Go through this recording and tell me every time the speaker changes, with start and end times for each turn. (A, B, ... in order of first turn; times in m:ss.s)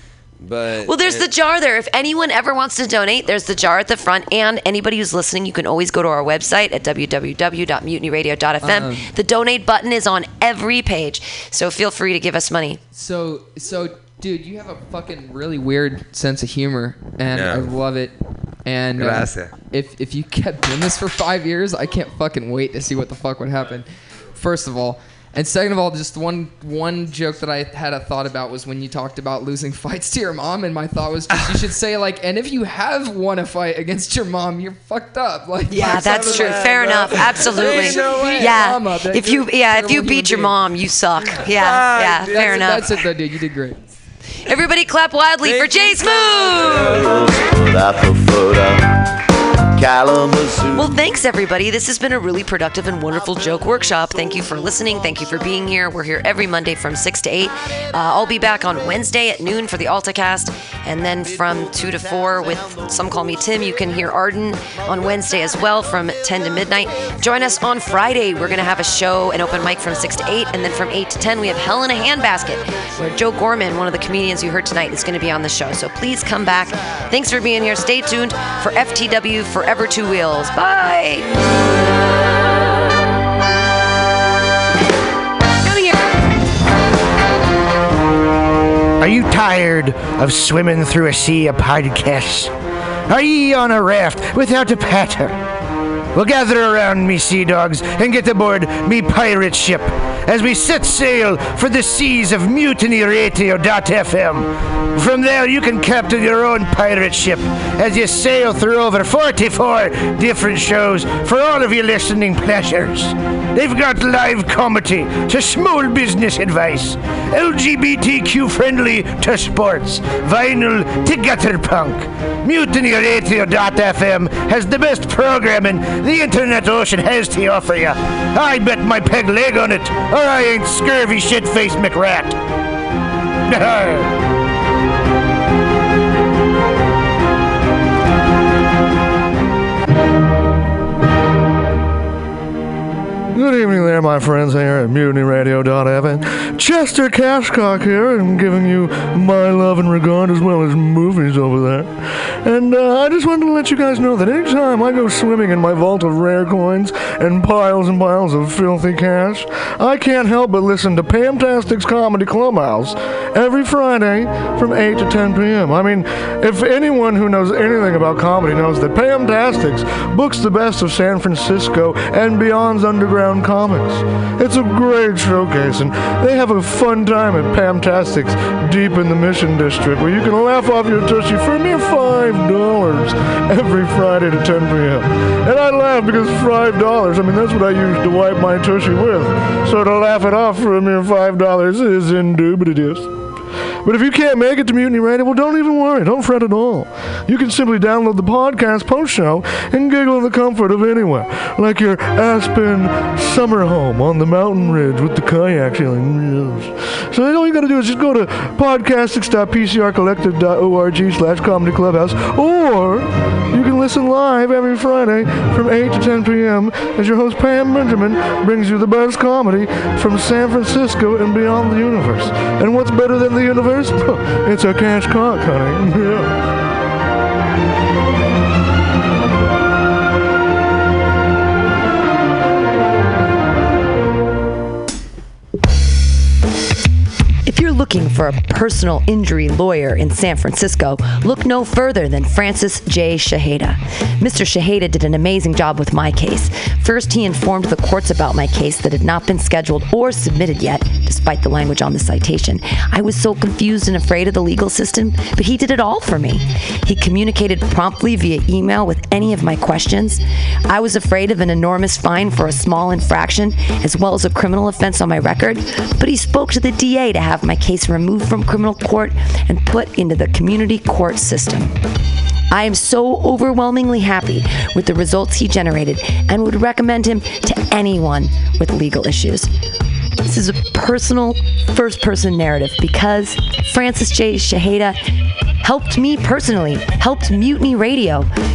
0:00.4-0:01.3 A
0:00.8-0:12.8 B
0:08.6-0:09.1 C
0:12.9-0:40.5 C
0:17.3-0:17.8 A
0:18.9-0:19.5 A
0:35.7-0:43.0 B
0:41.4-0:43.8 C
0:44.4-0:47.0 B
0:45.4-0:46.7 C
0:46.6-0:48.8 D
0:49.8-0:50.9 D
0:50.7-1:21.3 B
1:25.6-1:26.1 B
1:29.0-1:32.5 E
1:33.1-1:35.4 E
1:36.1-2:12.4 E
2:13.5-2:14.1 E
2:23.3-3:13.1 F
3:13.8-3:46.4 F
3:57.4-4:31.8 B
4:32.5-4:39.5 B
4:40.2-4:45.0 B
4:45.6-4:48.3 B